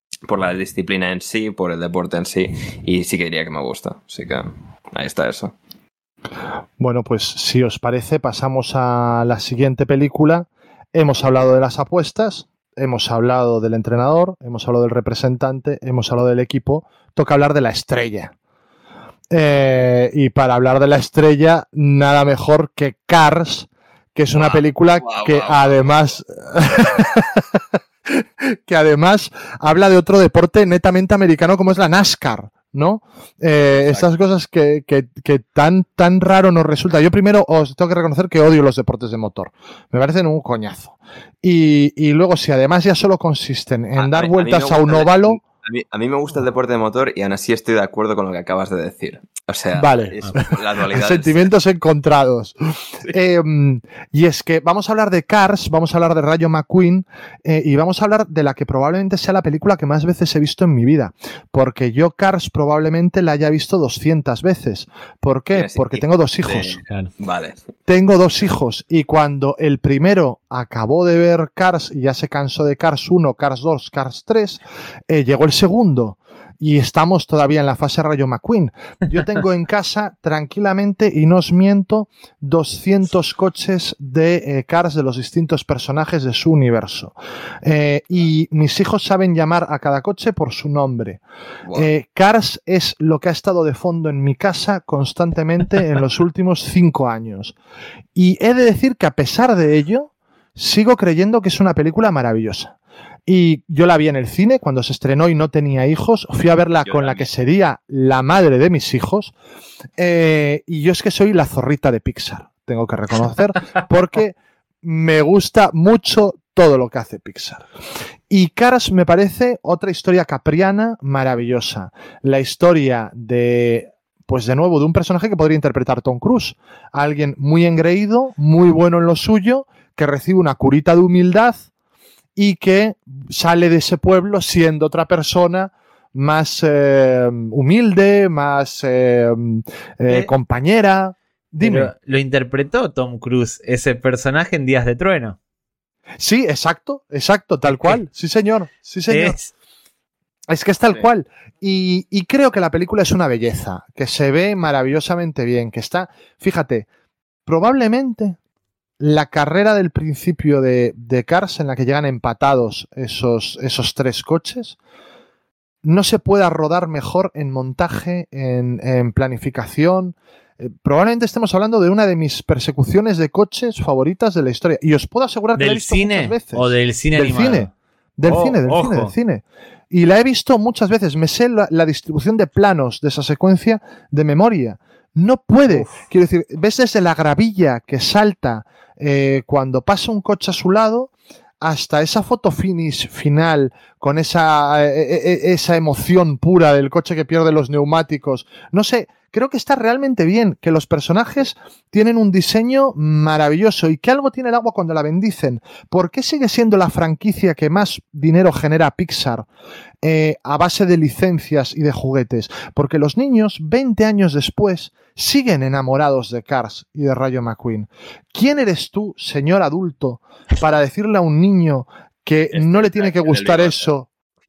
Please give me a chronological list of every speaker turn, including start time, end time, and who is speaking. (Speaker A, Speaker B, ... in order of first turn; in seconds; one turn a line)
Speaker A: 0.3-5.5
Speaker B: 6.8-18.3
Speaker B: 19.3-45.4
Speaker A: 24.3-26.1
Speaker A: 44.0-51.5
Speaker B: 49.7-66.8
Speaker A: 65.5-67.7
Speaker B: 67.9-91.2
Speaker B: 91.7-97.6
Speaker B: 98.2-102.8
Speaker B: 103.3-109.3
Speaker A: 106.8-107.3
Speaker B: 110.0-117.7
Speaker B: 118.3-131.7
Speaker B: 132.4-141.9
Speaker C: 141.6-145.4
Speaker B: 146.2-149.4
Speaker C: 147.7-148.0
Speaker C: 149.1-149.5
Speaker B: 150.5-156.9
Speaker B: 157.5-158.4
Speaker B: 159.0-164.8
Speaker B: 165.8-209.5
Speaker C: 175.6-177.7
Speaker C: 178.2-179.1
Speaker B: 210.0-224.1
Speaker A: 222.5-223.9